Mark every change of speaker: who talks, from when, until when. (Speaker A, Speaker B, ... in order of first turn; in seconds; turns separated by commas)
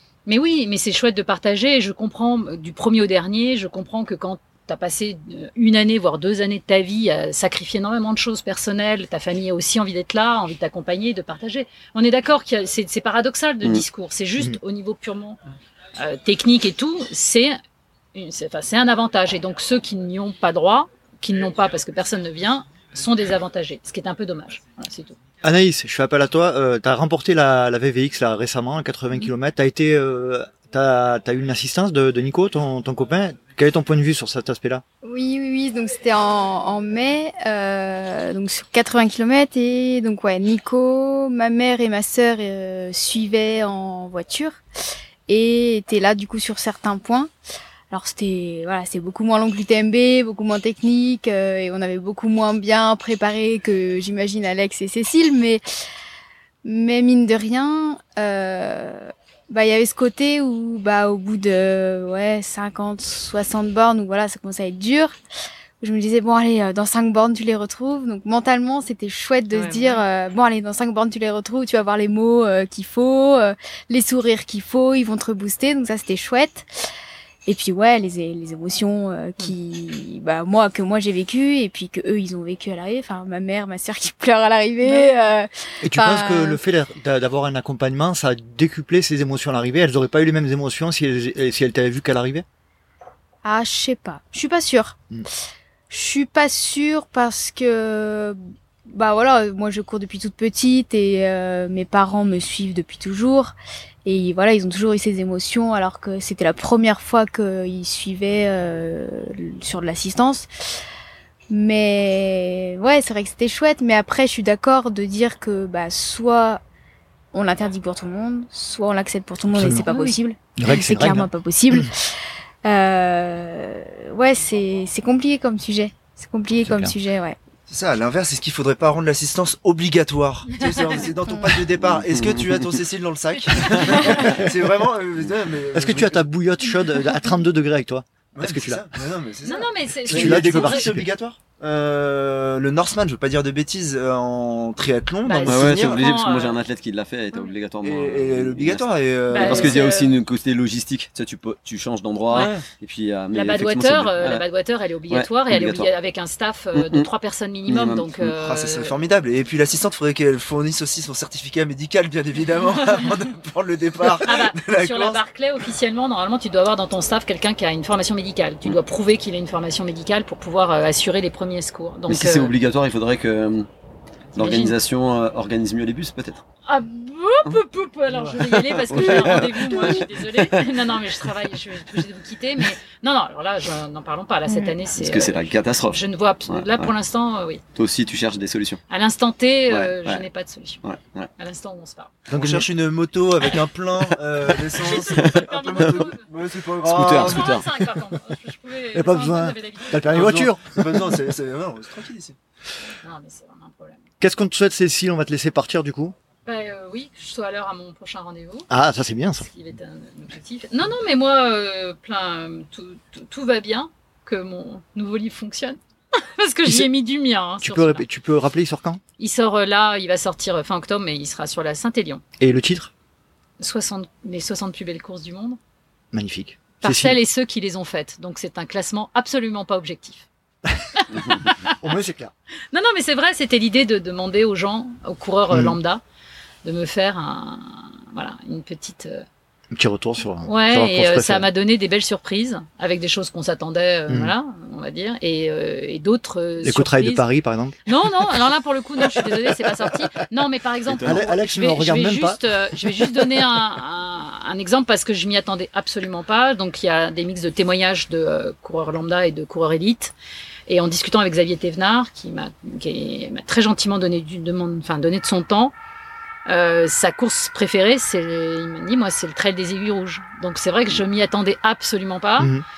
Speaker A: 0.3-15.4, Speaker A: 16.0-17.6, Speaker A: 18.1-25.2, Speaker B: 25.4-34.8, Speaker C: 35.0-44.6, Speaker C: 45.3-47.3, Speaker C: 47.9-55.6, Speaker C: 56.6-65.2, Speaker C: 65.8-76.7, Speaker A: 69.5-70.0, Speaker C: 77.5-86.6, Speaker B: 85.8-92.4, Speaker C: 93.4-95.0, Speaker C: 95.9-110.5, Speaker C: 111.5-116.6, Speaker C: 117.3-122.1, Speaker B: 119.5-119.9, Speaker A: 119.9-120.1, Speaker B: 120.5-121.3, Speaker C: 122.6-127.4, Speaker B: 126.6-126.9, Speaker D: 127.7-136.2, Speaker A: 130.5-131.0, Speaker E: 132.1-132.7, Speaker B: 135.7-138.9, Speaker D: 138.3-146.0, Speaker A: 139.4-141.0, Speaker B: 140.1-141.1, Speaker A: 145.2-146.6, Speaker E: 145.4-154.4, Speaker D: 147.8-149.9, Speaker A: 149.3-150.2, Speaker A: 152.3-152.6, Speaker A: 153.3-158.9, Speaker E: 155.1-155.9, Speaker E: 156.7-157.1, Speaker E: 157.7-158.3, Speaker D: 158.3-165.2, Speaker A: 164.1-172.5, Speaker E: 172.1-173.7, Speaker E: 174.3-176.4, Speaker A: 174.3-174.8, Speaker A: 176.7-187.6, Speaker E: 178.2-180.6, Speaker E: 184.9-186.9, Speaker E: 187.7-188.8, Speaker A: 188.9-190.8, Speaker E: 189.7-190.2, Speaker E: 190.8-191.3, Speaker A: 191.4-192.2, Speaker B: 192.3-192.7, Speaker D: 192.3-197.6, Speaker A: 194.8-196.3, Speaker E: 195.1-196.0, Speaker E: 196.8-197.7, Speaker A: 197.1-200.4, Speaker B: 198.9-201.2, Speaker D: 200.1-202.4, Speaker A: 203.0-204.0, Speaker B: 204.2-206.2, Speaker A: 206.4-208.7, Speaker B: 208.7-209.5, Speaker A: 209.4-218.0, Speaker B: 217.6-219.0, Speaker A: 219.2-222.2, Speaker B: 222.4-222.9, Speaker A: 223.6-225.6, Speaker B: 226.1-227.2, Speaker A: 226.8-230.2, Speaker A: 231.0-231.8, Speaker B: 231.8-232.3, Speaker A: 232.7-236.0, Speaker B: 235.5-235.8, Speaker A: 236.6-239.2, Speaker B: 239.7-241.5, Speaker A: 240.4-247.2, Speaker B: 244.1-244.3, Speaker B: 246.6-247.8, Speaker A: 247.9-260.1, Speaker E: 250.9-251.2, Speaker B: 251.0-253.4, Speaker A: 260.7-265.7, Speaker A: 266.4-272.5, Speaker B: 272.4-272.6